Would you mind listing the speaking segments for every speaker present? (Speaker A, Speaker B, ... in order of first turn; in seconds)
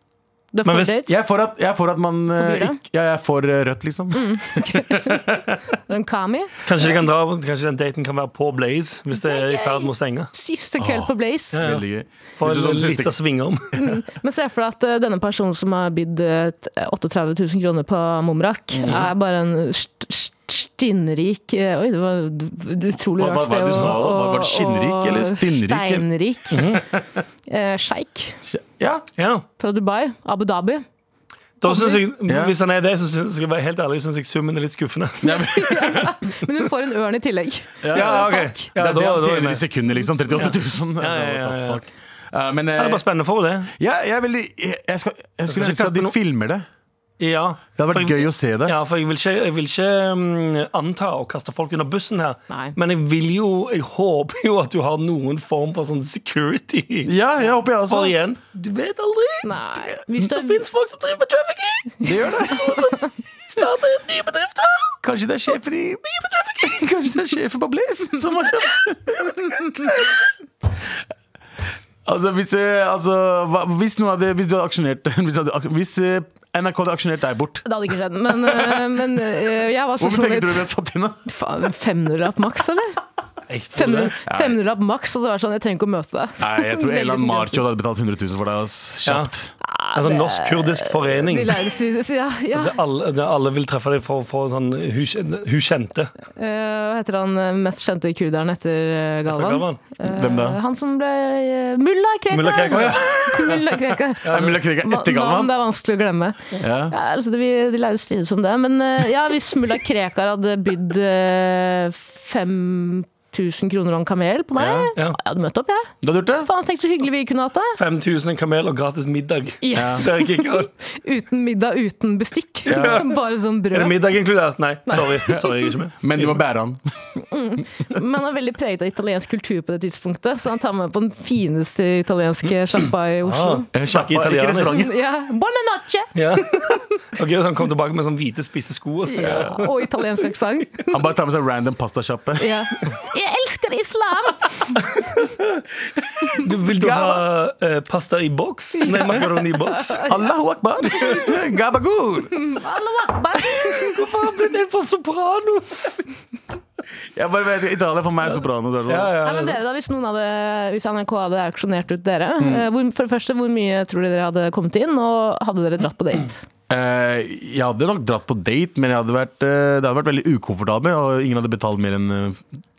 Speaker A: 0.5-1.1, 2.4-2.8, 4.1-5.2, 5.9-6.5, 9.1-11.6, 13.8-26.7, 27.5-28.4, 29.6-30.8, 31.6-32.0, 35.3-38.7, 52.5-52.7, 59.4-60.6, 77.6-80.7, 81.2-83.0, 83.7-87.6, 89.6-92.8, 96.3-117.8, 119.6-124.0, 124.9-125.5, 127.2-133.7, 134.6-136.8, 139.1-140.9, 142.4-144.8, 148.8-150.2, 150.9-151.3, 152.3-154.0, 159.2-166.4
Speaker B: 0.7-1.0, 6.7-10.3, 11.5-11.8, 12.3-13.7, 18.9-19.1, 26.5-26.8, 29.2-29.4, 31.6-35.4, 37.9-39.6, 40.4-41.8, 42.8-43.7, 45.5-46.1, 47.2-57.1, 57.9-59.6, 60.1-65.0, 66.1-66.8, 83.5-84.1, 89.0-89.3, 89.9-91.7, 92.5-96.1, 99.3-99.8, 102.3-103.6, 104.2-104.6, 117.8-120.7, 122.7-123.1, 123.7-126.4, 133.2-134.8, 136.1-139.7, 146.4-150.0, 153.6-156.0, 158.9-159.6
Speaker C: 1.0-5.5, 10.8-13.2, 18.7-19.1, 23.2-26.1, 28.4-29.1, 32.2-32.5, 35.2-36.1, 37.8-43.0, 43.8-46.6, 47.8-48.8, 57.0-58.1, 62.0-62.8, 65.0-70.0, 72.0-77.6, 78.3-79.4, 80.0-81.3, 84.2-84.6, 86.4-89.5, 100.0-100.6, 104.2-105.5, 106.6-106.9, 114.6-114.9, 116.0-116.5, 119.7-120.0, 122.7-123.0, 126.0-126.8, 133.7-134.9, 139.2-139.6, 140.9-142.5, 146.2-147.2, 150.0-152.3, 157.1-159.1, 162.4-162.7, 166.7-172.4